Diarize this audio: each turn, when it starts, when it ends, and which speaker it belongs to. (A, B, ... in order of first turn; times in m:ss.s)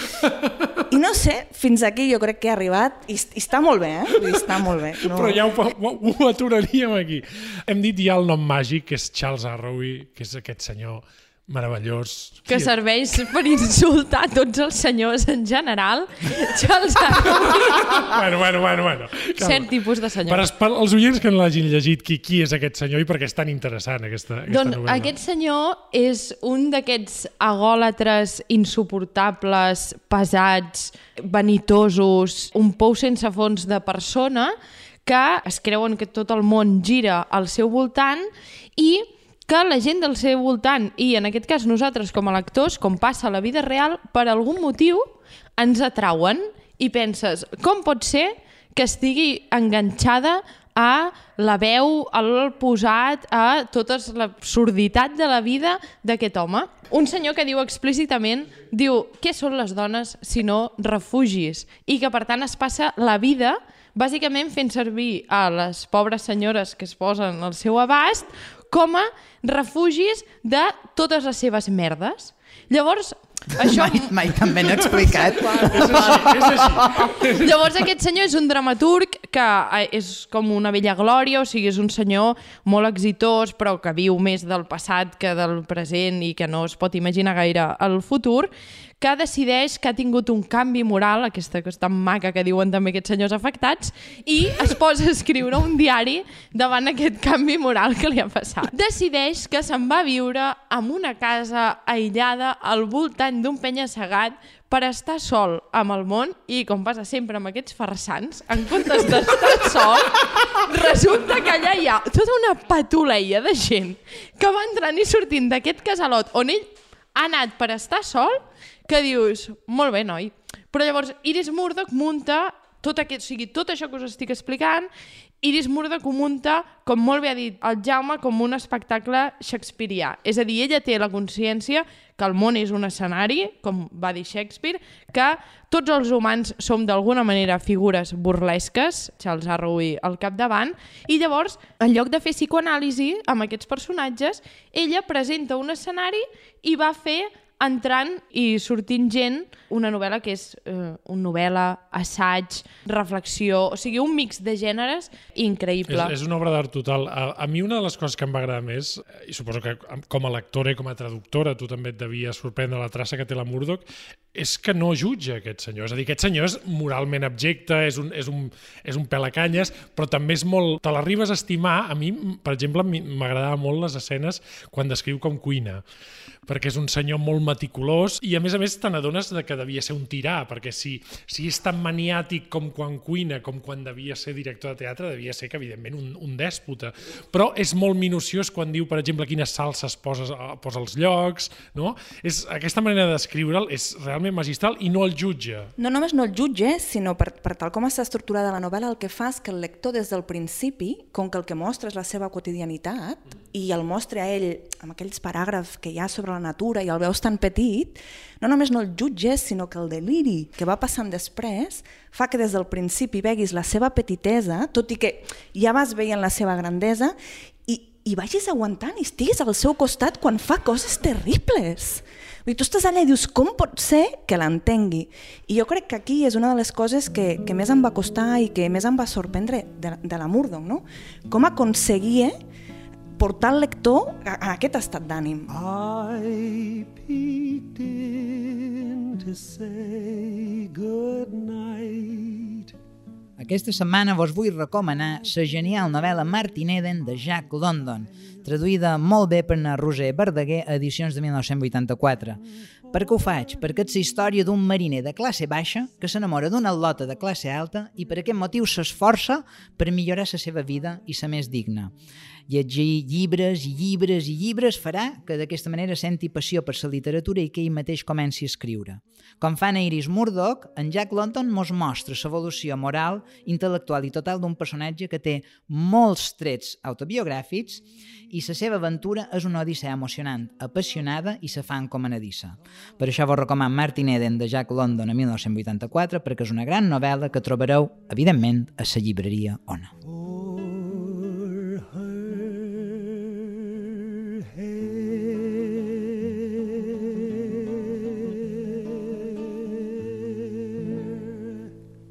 0:00.2-0:00.8 A
0:00.9-0:05.4 B
0:05.0-0:12.7 A
0:12.5-0:18.1 C
0:17.3-0:19.7 A
0:19.4-0:20.5 C
0:20.2-0:25.1 A
0:24.5-1:16.2 C
1:13.6-1:17.0 D
1:15.5-1:17.5 A
1:17.3-1:28.5 C
1:29.0-2:04.9 C
2:05.4-2:36.1 C
2:35.9-2:55.8 A
2:56.4-3:15.7 A
3:15.8-3:37.1 B
3:37.7-3:52.3 B
3:53.2-3:55.5 B
3:55.5-4:02.7 E
4:03.4-4:12.4 D
4:12.9-4:21.9 D
4:22.5-4:49.9 D
4:50.0-5:01.7 E